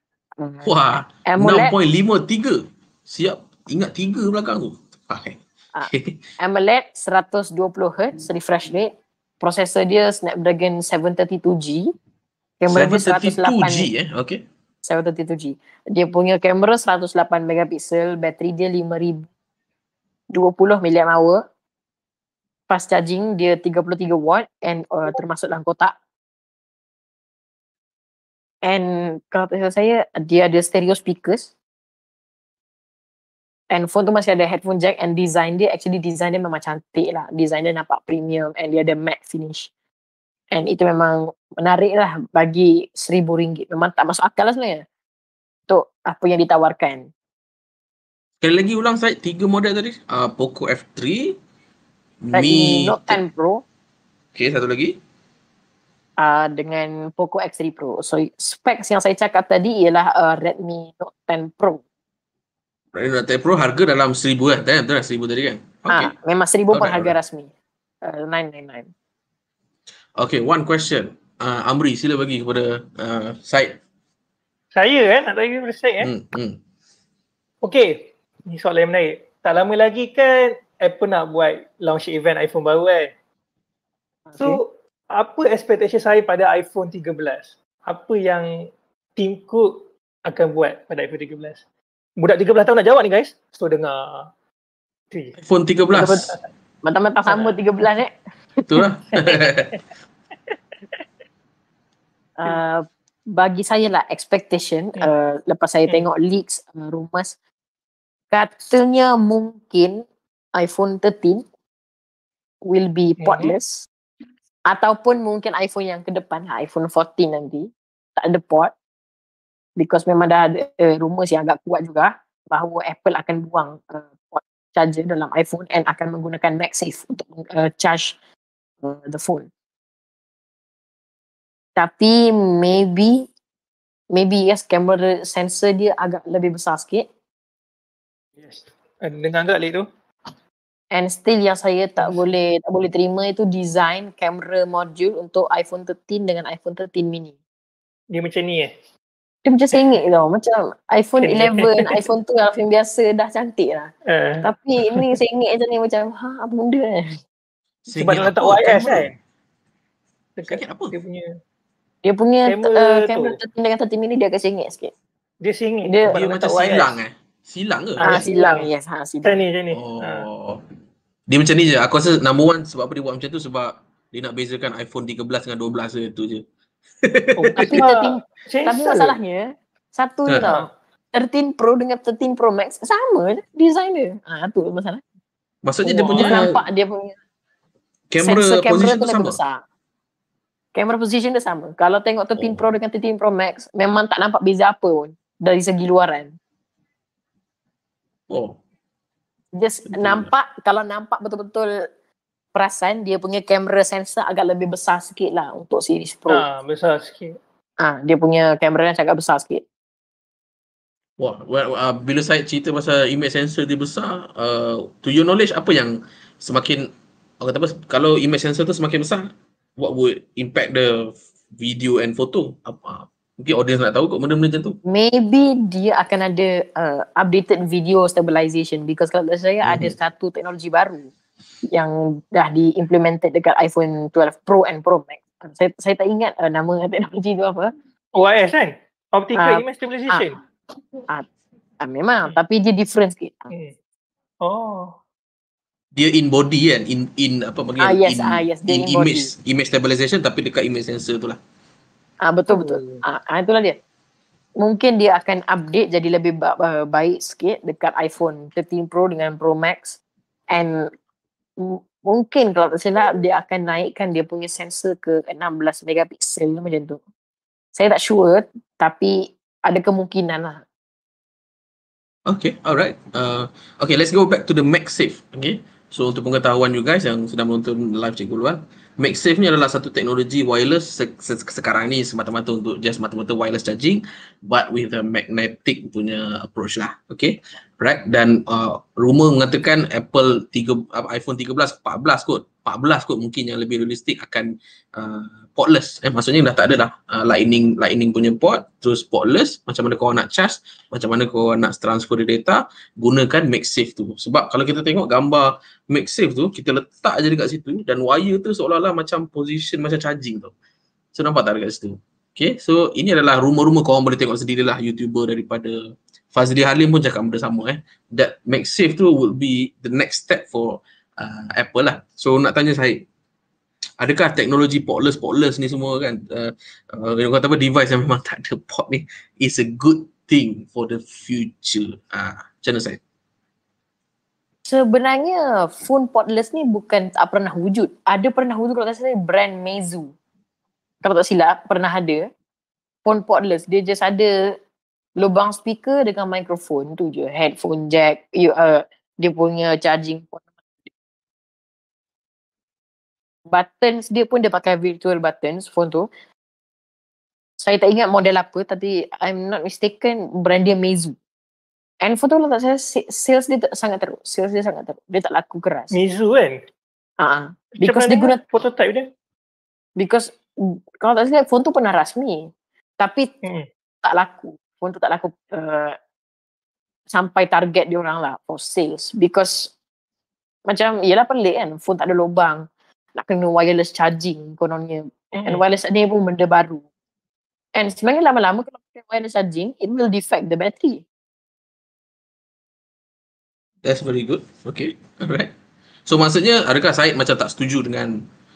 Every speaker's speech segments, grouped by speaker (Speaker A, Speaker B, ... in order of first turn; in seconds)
Speaker A: 0.4-0.7, 1.2-1.7, 5.7-11.9, 12.6-13.9, 14.8-19.3, 20.3-21.4, 22.7-25.9, 28.6-31.5, 33.7-39.7, 40.5-44.8, 45.7-47.1, 52.3-53.6, 56.2-61.8, 65.9-67.5, 68.0-68.9, 84.3-84.6, 95.9-96.2, 96.8-98.1, 102.4-107.3, 108.3-110.0, 110.5-111.4, 112.7-113.9, 114.7-118.7, 119.8-128.2, 128.8-129.5, 131.8-133.3, 134.1-137.1, 140.9-147.3, 149.4-153.9, 154.4-157.1, 162.0-164.9, 165.8-166.2, 168.0-169.4, 177.6-185.0, 185.8-187.2, 188.2-189.6, 190.7-196.3, 199.5-201.7, 202.5-206.4, 207.8-209.6, 224.8-231.1, 231.7-237.7, 239.3-240.3, 241.8-243.5, 247.8-249.3, 252.2-253.8, 254.6-260.0, 260.5-260.9, 261.6-267.0, 267.7-270.6, 334.6-340.1, 341.0-342.3, 343.0-344.3, 345.2-350.9, 353.5-356.1, 357.6-361.1, 362.0-365.9, 367.2-368.4, 370.0-373.3, 374.0-375.9, 377.1-379.7, 380.7-382.6, 383.1-386.8, 387.8-391.0
Speaker B: 0.6-6.2, 12.7-14.4, 48.4-51.3, 52.2-53.2, 54.3-55.0, 62.9-66.1, 66.7-67.1, 70.2-73.8, 76.0-76.6, 95.4-96.3, 98.7-99.8, 157.8-159.1, 160.5-160.9, 166.1-168.2, 169.7-170.6, 171.3-176.4, 177.0-177.8, 185.6-186.6, 188.1-189.4, 192.4-192.6, 198.3-198.6, 199.9-200.3, 211.2-216.9, 217.4-224.8, 229.6-229.9, 245.9-251.4, 272.3-310.5, 311.1-315.8, 316.3-323.0, 324.0-333.0, 393.8-395.5, 396.1-398.2
Speaker C: 74.7-76.1, 77.6-83.1, 84.4-88.5, 89.2-89.7, 90.2-91.6, 92.2-94.3, 97.2-97.5, 113.2-113.5, 138.4-139.8, 148.1-148.7, 151.2-151.9, 154.1-155.1, 157.9-159.1, 160.4-161.3, 162.4-163.4, 165.4-166.9, 168.0-168.7, 169.2-170.3, 177.4-179.1, 186.2-186.5, 206.3-207.4, 238.2-240.4, 244.4-244.9, 252.5-253.0, 365.9-366.6, 367.8-369.1, 385.3-385.6